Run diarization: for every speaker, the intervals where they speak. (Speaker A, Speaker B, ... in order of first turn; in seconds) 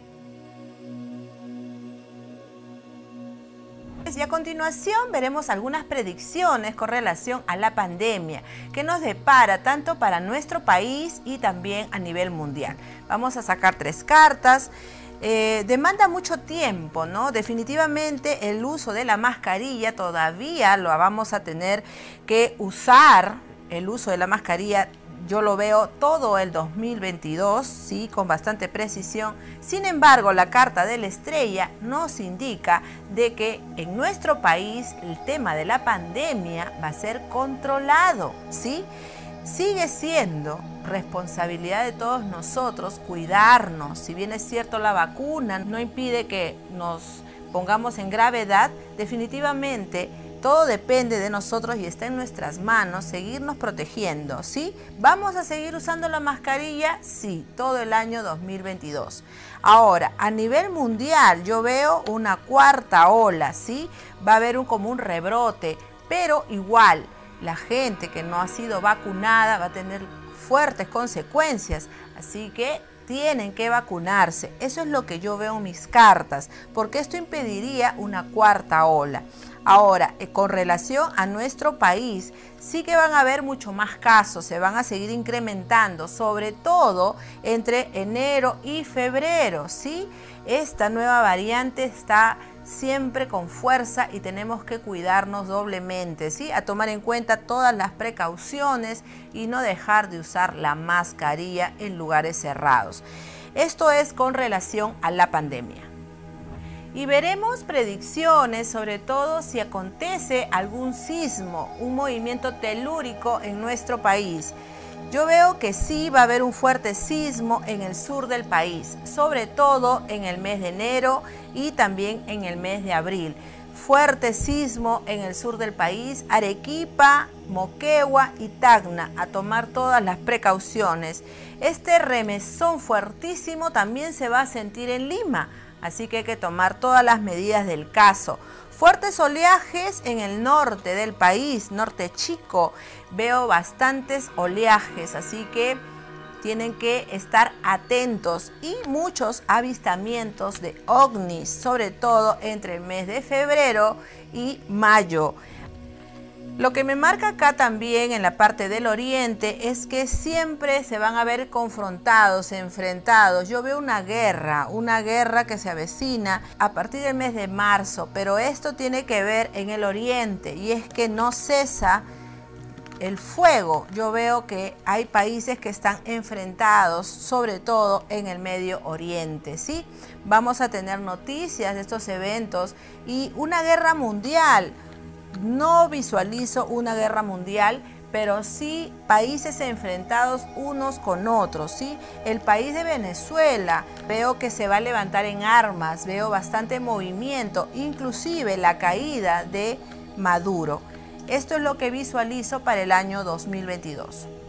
Speaker A: 4.1-38.9, 39.4-103.0, 103.5-105.9, 106.9-114.6, 115.1-145.8, 146.4-155.4, 156.6-172.0, 173.0-184.8, 185.3-204.3